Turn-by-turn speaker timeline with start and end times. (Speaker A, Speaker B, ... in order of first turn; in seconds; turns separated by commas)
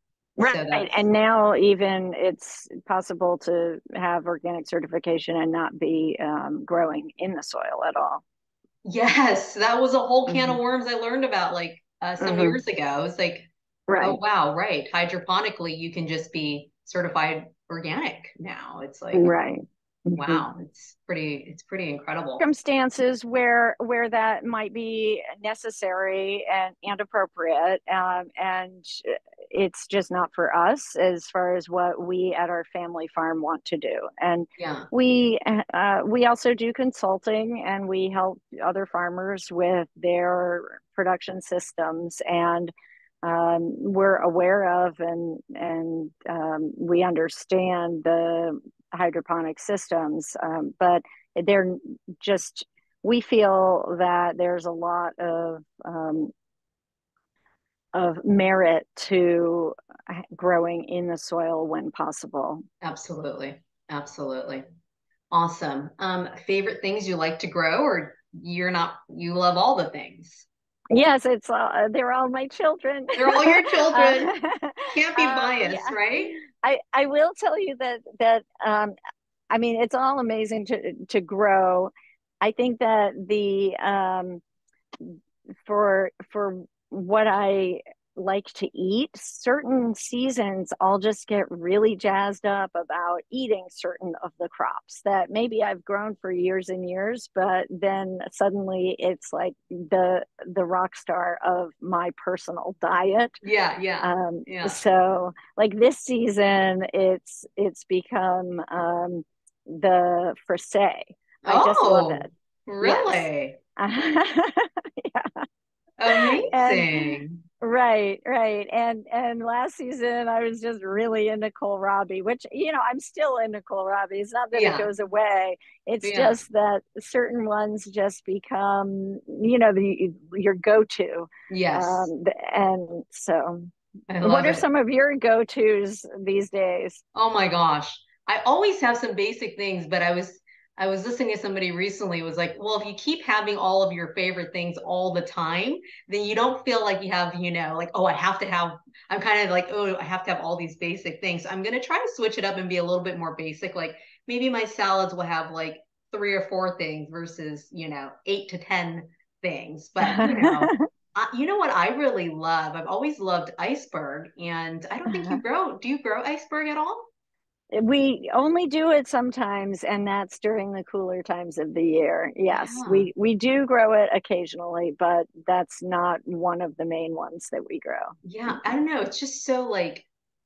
Speaker A: 0.4-8.2, Speaker B: 0.4-0.9, Speaker B: 8.8-13.5, Speaker A: 10.3-10.6, Speaker A: 12.2-12.6, Speaker A: 13.9-14.2, Speaker B: 14.0-19.4, Speaker A: 19.1-20.5, Speaker B: 20.1-22.4, Speaker A: 22.4-42.7, Speaker B: 34.6-34.9, Speaker A: 43.2-56.3, Speaker A: 57.9-62.6, Speaker B: 62.8-64.6, Speaker B: 65.3-70.5, Speaker A: 70.9-78.9, Speaker B: 73.1-74.3, Speaker B: 74.9-76.4, Speaker A: 79.5-84.4, Speaker A: 85.0-103.4, Speaker B: 103.4-104.8, Speaker A: 104.0-112.3, Speaker B: 111.5-113.6, Speaker A: 112.8-115.4, Speaker B: 116.0-117.4, Speaker A: 116.1-137.0, Speaker B: 124.5-124.9, Speaker B: 126.0-126.4, Speaker B: 131.5-132.1, Speaker B: 134.1-134.6, Speaker B: 137.1-167.1, Speaker A: 160.0-160.8, Speaker A: 165.1-165.4, Speaker A: 167.7-178.8, Speaker B: 172.5-173.1, Speaker B: 178.2-180.1